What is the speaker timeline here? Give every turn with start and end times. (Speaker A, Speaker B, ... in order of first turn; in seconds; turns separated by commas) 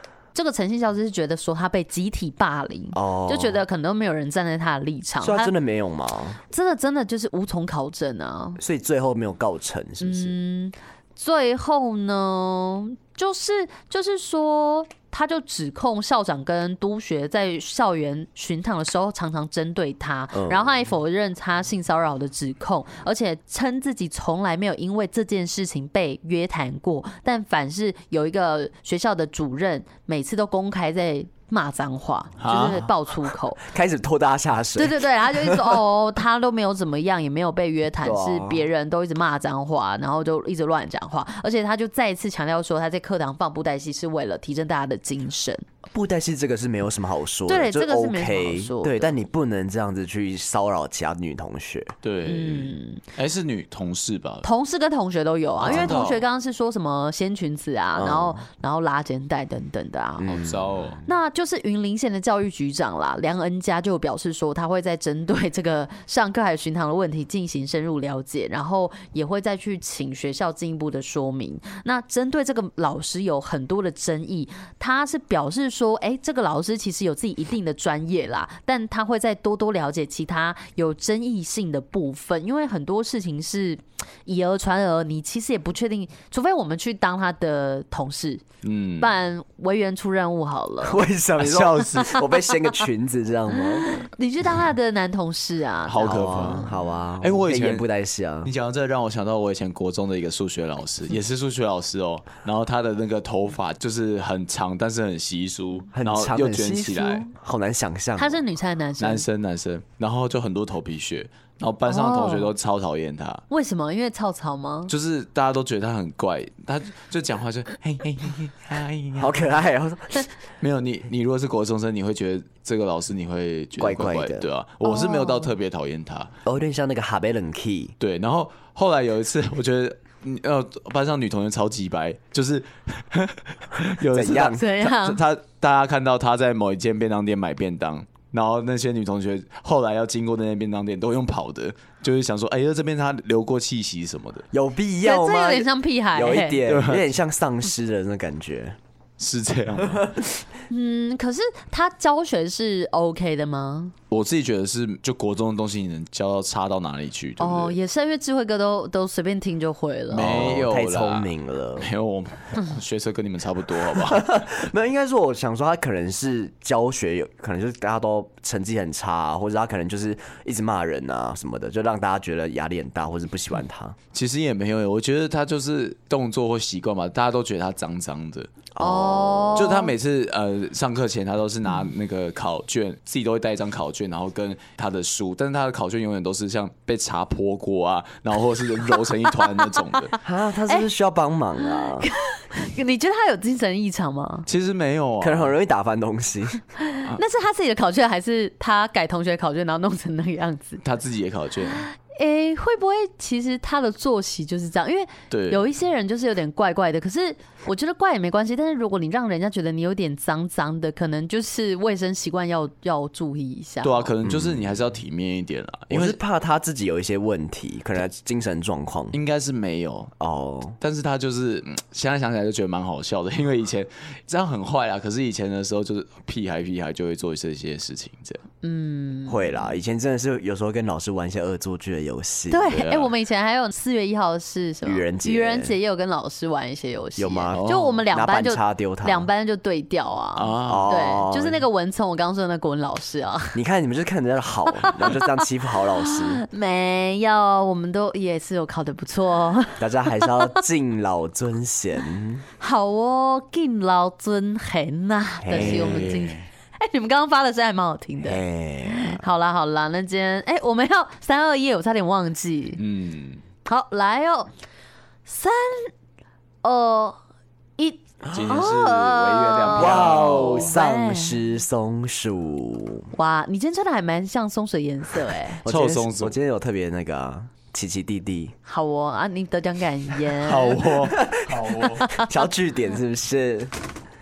Speaker A: 0.3-5.5, Speaker B: 2.9-3.6, Speaker B: 5.2-6.4, Speaker A: 6.5-8.6, Speaker B: 8.6-10.3, Speaker A: 10.0-33.6, Speaker B: 20.3-20.7, Speaker C: 32.4-32.8, Speaker B: 32.5-32.9, Speaker B: 33.6-35.8, Speaker A: 34.8-45.6, Speaker B: 38.0-38.6, Speaker B: 45.9-51.9, Speaker A: 47.5-49.2, Speaker C: 52.0-54.5, Speaker A: 52.3-53.0, Speaker A: 54.4-60.4, Speaker C: 55.6-56.2, Speaker B: 55.6-56.0, Speaker B: 57.9-58.4, Speaker B: 60.2-61.0, Speaker C: 60.3-61.0, Speaker A: 61.0-88.4, Speaker C: 88.6-89.1, Speaker A: 89.0-91.0, Speaker B: 90.8-93.9, Speaker C: 91.4-92.2, Speaker A: 93.6-96.6, Speaker C: 95.9-96.7, Speaker B: 96.0-98.5, Speaker C: 97.2-97.9, Speaker C: 98.4-107.3, Speaker B: 105.9-108.4, Speaker A: 108.2-109.2, Speaker C: 109.0-113.4, Speaker A: 111.9-112.5, Speaker A: 113.5-114.9, Speaker C: 114.9-119.4, Speaker B: 119.2-120.1, Speaker C: 120.6-126.3, Speaker B: 123.8-124.5, Speaker A: 124.8-125.5, Speaker B: 126.5-128.0, Speaker C: 128.0-144.4, Speaker B: 134.1-134.7, Speaker A: 134.5-135.2, Speaker B: 144.5-148.8, Speaker A: 145.0-146.6, Speaker C: 146.7-147.1, Speaker C: 149.2-150.1, Speaker B: 149.8-150.3, Speaker A: 150.7-153.9, Speaker C: 154.1-157.7, Speaker A: 157.4-160.4, Speaker C: 160.1-164.3, Speaker B: 160.1-161.9, Speaker B: 163.9-174.0, Speaker C: 174.1-178.5, Speaker B: 178.7-179.7, Speaker A: 178.8-179.9, Speaker C: 179.6-190.1, Speaker B: 190.2-192.1, Speaker A: 191.6-194.5, Speaker C: 194.5-195.5, Speaker B: 195.2-196.6, Speaker A: 196.8-200.8, Speaker C: 200.8-201.8, Speaker A: 201.7-214.1, Speaker C: 205.3-205.6, Speaker C: 213.8-216.2, Speaker B: 214.2-214.8, Speaker B: 215.9-219.2, Speaker C: 219.1-220.1, Speaker B: 220.2-220.8, Speaker C: 220.8-228.4, Speaker A: 228.6-229.7, Speaker B: 229.3-233.0, Speaker A: 232.5-243.6, Speaker C: 232.7-233.1, Speaker B: 234.8-235.7, Speaker B: 237.2-239.3, Speaker C: 237.5-238.0, Speaker C: 240.4-240.9, Speaker B: 240.7-241.6, Speaker B: 243.6-246.4, Speaker A: 244.8-245.3, Speaker A: 245.8-250.6, Speaker B: 249.8-252.4, Speaker A: 252.6-262.8, Speaker B: 255.4-256.1, Speaker C: 255.5-256.4, Speaker B: 258.2-259.2, Speaker C: 262.8-263.4, Speaker A: 263.7-264.5, Speaker A: 265.3-265.9, Speaker A: 266.6-267.2, Speaker A: 267.8-271.4, Speaker B: 268.2-268.6, Speaker C: 268.3-270.7, Speaker B: 269.7-273.1, Speaker A: 273.1-275.6, Speaker B: 275.6-278.6, Speaker C: 275.7-276.4, Speaker A: 278.7-280.9, Speaker C: 280.4-282.1, Speaker B: 281.1-283.7, Speaker A: 281.9-282.3